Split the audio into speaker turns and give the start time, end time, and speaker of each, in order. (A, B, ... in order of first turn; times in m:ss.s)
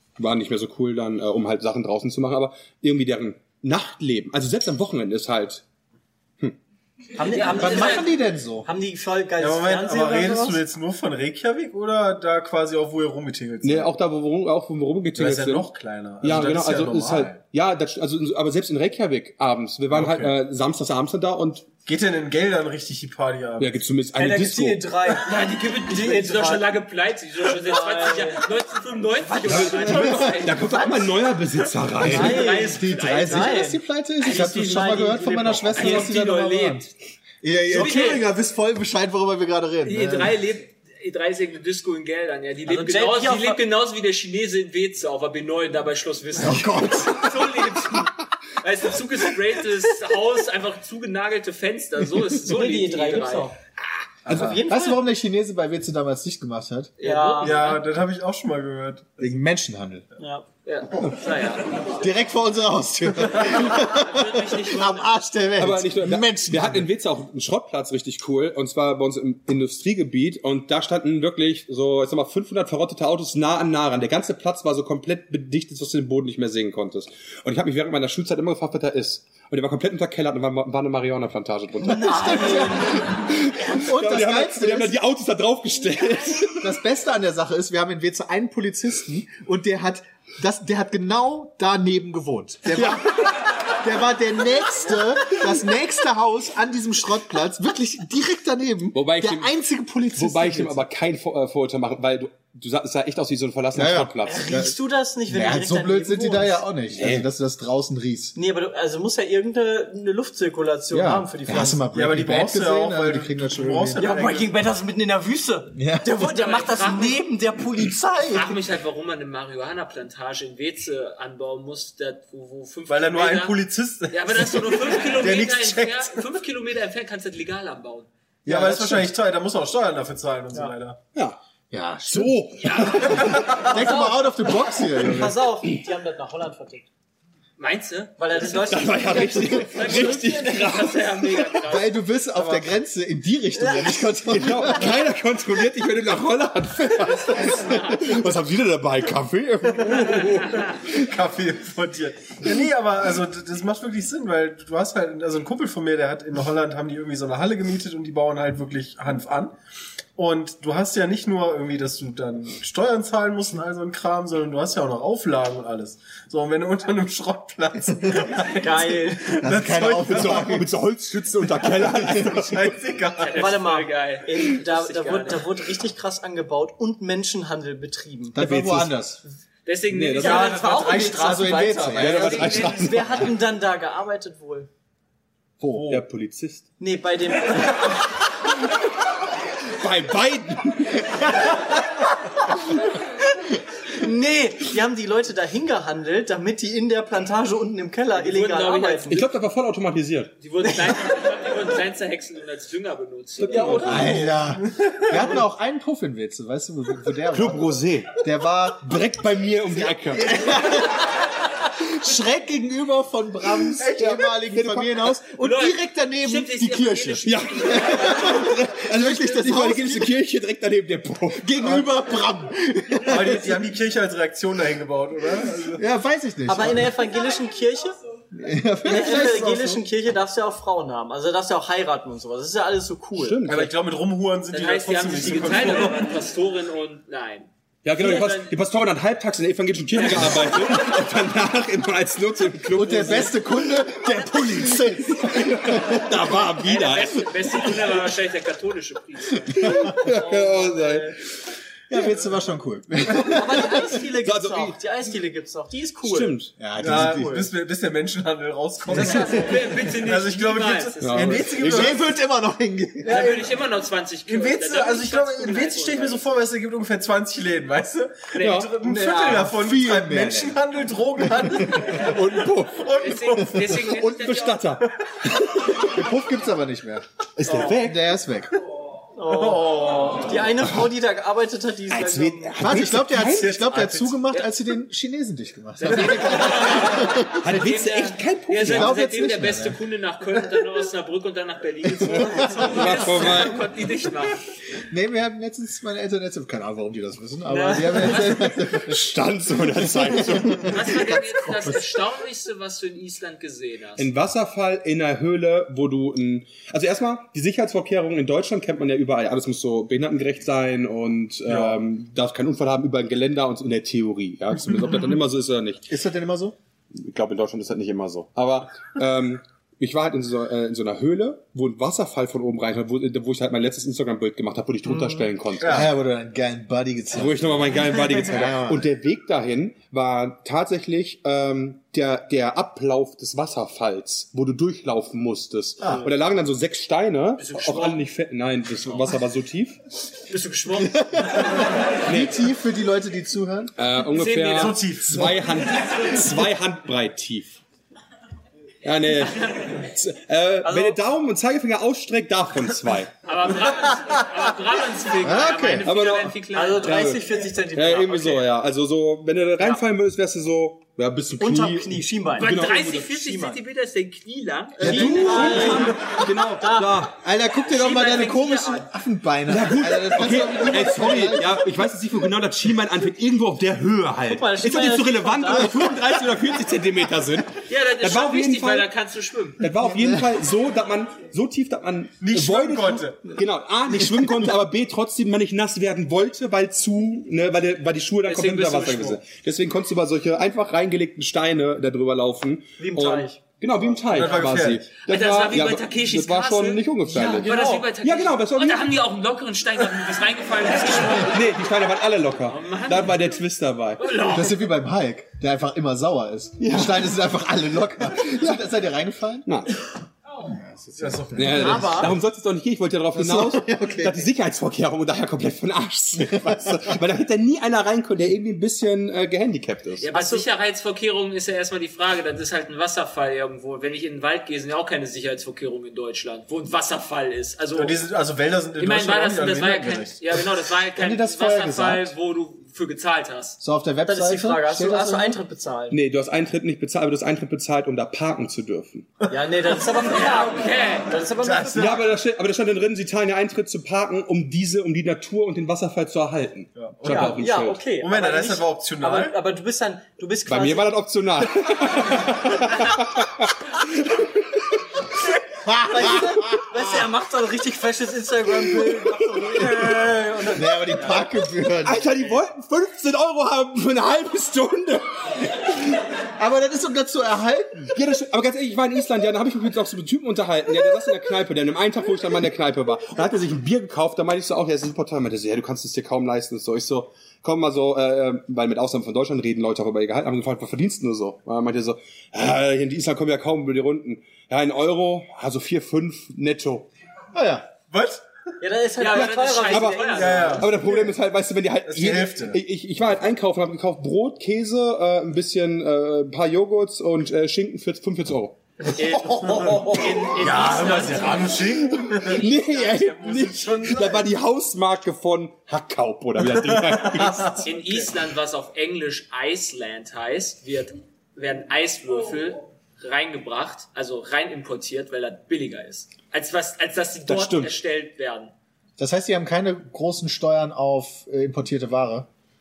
0:00.2-0:05.6 A
0:07.1-0:08.1 B
0:07.3-0:08.1 C
0:07.5-0:08.7 D
0:08.6-0:10.6 B
0:09.4-0:13.9 E
0:13.6-0:15.7 A
0:15.1-0:17.4 E
0:16.2-0:21.7 A
0:19.9-0:20.3 E
0:21.8-0:23.7 E
0:23.6-0:24.9 A
0:24.2-0:25.3 B
0:25.2-0:30.7 C
0:25.8-0:26.7 B
0:27.4-0:28.4 B
0:29.3-0:30.1 B
0:29.4-0:32.6 A
0:29.8-0:30.5 D
0:30.7-0:31.3 B
0:32.0-0:36.2 B
0:32.0-0:36.9 D
0:32.1-0:33.6 C
0:35.7-0:36.9 C
0:37.4-0:40.4 D
0:37.7-0:38.3 C
0:37.7-0:38.2 B
0:39.8-0:53.5 C
0:42.6-0:43.6 B
0:46.4-0:47.6 D
0:52.4-0:53.5 B
0:54.2-0:56.9 D
0:54.3-0:55.0 B
0:57.0-0:57.8 C
0:57.0-0:57.7 B
0:57.4-0:59.3 E
0:59.2-1:00.0 D
1:00.2-1:00.4 B
1:00.6-1:02.0 C
1:02.0-1:06.9 D
1:03.5-1:05.2 C
1:05.6-1:26.7 A
1:21.8-1:23.1 B
1:21.9-1:25.0 D
1:26.5-1:33.2 D
1:32.7-1:33.0 A
1:33.8-1:40.8 D
1:38.9-1:39.5 A
1:40.1-1:44.5 A
1:43.7-1:44.7 D
1:44.2-1:46.6 B
1:45.3-1:48.4 D
1:47.0-1:47.3 A
1:48.3-1:51.8 B
1:50.9-1:54.1 D
1:51.9-1:54.5 E
1:54.0-1:58.6 B
1:55.7-1:56.1 D
1:56.2-1:57.2 C
1:58.3-2:03.6 C
2:02.9-2:06.2 E
2:04.1-2:08.1 C
2:08.4-2:09.1 D
2:08.4-2:11.0 E
2:11.7-2:15.4 D
2:12.0-2:13.3 A
2:12.6-2:13.4 C
2:13.5-2:16.9 B
2:17.6-2:22.0 C
2:18.2-2:20.6 B
2:18.6-2:21.3 A
2:21.6-2:25.0 D
2:22.4-2:22.6 E
2:23.6-2:24.1 B
2:24.3-2:30.7 A
2:27.0-2:28.1 C
2:29.8-2:39.6 E
2:40.2-2:50.6 E
2:48.6-2:49.4 B
2:49.4-2:50.7 D
2:50.0-2:52.6 A
2:51.7-2:53.5 E
2:53.2-2:55.4 C
2:53.3-2:58.4 B
2:58.3-2:59.2 D
2:58.4-2:59.0 A
2:59.6-3:03.0 C
2:59.9-3:00.5 A
3:00.2-3:02.4 E
3:00.2-3:01.4 B
3:00.9-3:02.4 D
3:01.9-3:03.3 A
3:02.5-3:04.7 B
3:05.6-3:06.0 D
3:05.7-3:06.0 E
3:05.9-3:06.6 A
3:06.8-3:08.0 B
3:09.7-3:11.6 A
3:13.9-3:19.2 B
3:18.1-3:19.2 C
3:19.1-3:20.3 A
3:20.4-3:24.1 C
3:23.4-3:24.3 A
3:23.5-3:24.3 B
3:23.8-3:29.1 D
3:24.8-3:25.2 E
3:27.3-3:28.2 A
3:28.8-3:30.5 A
3:29.8-3:31.2 D
3:31.8-3:40.1 D
3:33.8-3:34.3 E
3:34.3-3:35.1 A
3:35.4-3:38.4 C
3:37.2-3:41.6 A
3:41.4-3:43.6 D
3:43.0-3:45.8 E
3:45.7-3:46.9 D
3:46.5-3:48.0 B
3:48.3-3:49.8 D
3:48.8-3:53.4 B
3:53.1-3:53.7 A
3:53.4-3:56.0 E
3:54.5-3:58.5 C
3:57.8-4:03.4 A
4:00.0-4:00.8 C
4:02.7-4:06.4 D
4:05.2-4:07.2 A
4:06.6-4:09.9 C
4:09.6-4:11.1 A
4:09.6-4:09.9 D
4:09.9-4:11.2 B
4:11.9-4:13.9 D
4:13.2-4:16.4 B
4:14.2-4:14.8 A
4:16.0-4:16.6 A
4:16.6-4:17.5 D
4:16.8-4:22.0 E
4:16.9-4:17.4 B
4:18.9-4:21.6 C
4:21.0-4:21.9 A
4:21.6-4:23.3 D
4:23.0-4:26.4 C
4:23.0-4:23.5 E
4:24.3-4:33.9 E
4:28.3-4:28.7 C
4:28.4-4:28.8 A
4:28.9-4:30.6 D
4:31.4-4:31.9 D
4:31.9-4:32.9 A
4:33.0-4:34.7 C
4:33.8-4:34.9 A
4:35.5-4:38.6 D
4:37.4-4:38.0 A
4:39.1-4:42.5 B
4:39.3-4:40.3 E
4:41.9-4:43.6 A
4:42.6-4:47.4 D
4:43.1-4:44.2 E
4:45.8-4:54.4 C
4:47.4-4:49.0 A
4:48.6-4:49.8 D
4:51.9-4:52.8 D
4:52.1-4:53.7 A
4:54.9-5:01.8 D
4:57.5-4:58.7 C
4:58.7-5:01.0 A
5:00.6-5:04.1 C
5:04.0-5:15.9 A
5:11.5-5:11.8 E
5:15.9-5:16.6 D
5:17.0-5:25.9 A
5:24.9-5:25.2 B
5:25.6-5:25.9 E
5:25.6-5:28.8 D
5:27.1-5:39.8 A
5:37.4-5:37.8 B
5:37.7-5:38.0 C
5:40.3-5:40.9 B
5:40.3-5:41.7 C
5:40.7-5:43.7 D
5:42.0-5:42.4 A
5:43.8-5:47.6 A
5:44.0-5:44.8 C
5:44.5-5:45.2 E
5:48.8-5:53.2 A
5:50.6-5:51.0 B
5:53.2-5:57.1 C
5:55.2-5:55.9 D
5:55.8-6:02.9 A
5:56.5-5:58.5 B
6:01.4-6:03.6 B
6:02.4-6:06.2 C
6:04.8-6:07.2 A
6:04.8-6:05.4 D
6:04.8-6:07.0 B
6:07.2-6:11.9 D
6:07.6-6:08.9 C
6:09.5-6:18.9 A
6:14.3-6:15.9 B
6:17.7-6:19.6 C
6:19.6-6:39.0 A
6:19.9-6:20.2 D
6:22.2-6:23.4 E
6:28.2-6:29.2 C
6:32.8-6:33.4 B
6:34.1-6:34.9 E
6:35.0-6:41.4 C
6:37.1-6:37.9 B
6:41.2-6:44.0 A
6:42.5-6:43.4 C
6:44.0-6:44.7 C
6:44.2-6:49.5 D
6:46.6-6:47.1 A
6:48.2-6:48.6 A
6:49.4-6:49.7 A
6:50.4-6:52.1 D
6:51.0-6:52.0 E
6:51.3-7:00.1 A
6:51.5-6:52.1 B
6:53.1-6:54.3 D
6:56.3-6:57.0 D
7:00.0-7:08.0 C
7:00.1-7:00.5 B
7:07.7-7:10.2 E
7:08.8-7:13.6 C
7:11.0-7:12.1 D
7:13.6-7:15.4 D
7:14.0-7:16.0 B
7:15.9-7:19.1 A
7:19.3-7:22.0 B
7:19.9-7:21.2 C
7:21.4-7:22.1 E
7:21.8-7:27.9 A
7:26.7-7:29.4 E
7:27.1-7:31.0 B
7:30.5-7:33.5 A
7:35.6-7:36.8 D
7:35.8-7:41.3 B
7:40.5-7:42.1 D
7:41.8-7:45.8 A
7:46.4-7:47.9 D
7:47.9-8:06.9 A
8:07.3-8:07.7 D
8:07.9-8:08.2 E
8:08.6-8:10.7 B
8:09.0-8:10.7 C
8:09.7-8:18.6 A
8:10.1-8:11.2 E
8:11.8-8:12.6 E
8:19.0-8:23.0 C
8:19.0-8:24.3 E
8:19.2-8:20.1 B
8:22.0-8:27.7 A
8:26.5-8:28.1 E
8:27.6-8:38.5 C
8:37.3-8:37.7 A
8:39.0-8:42.3 D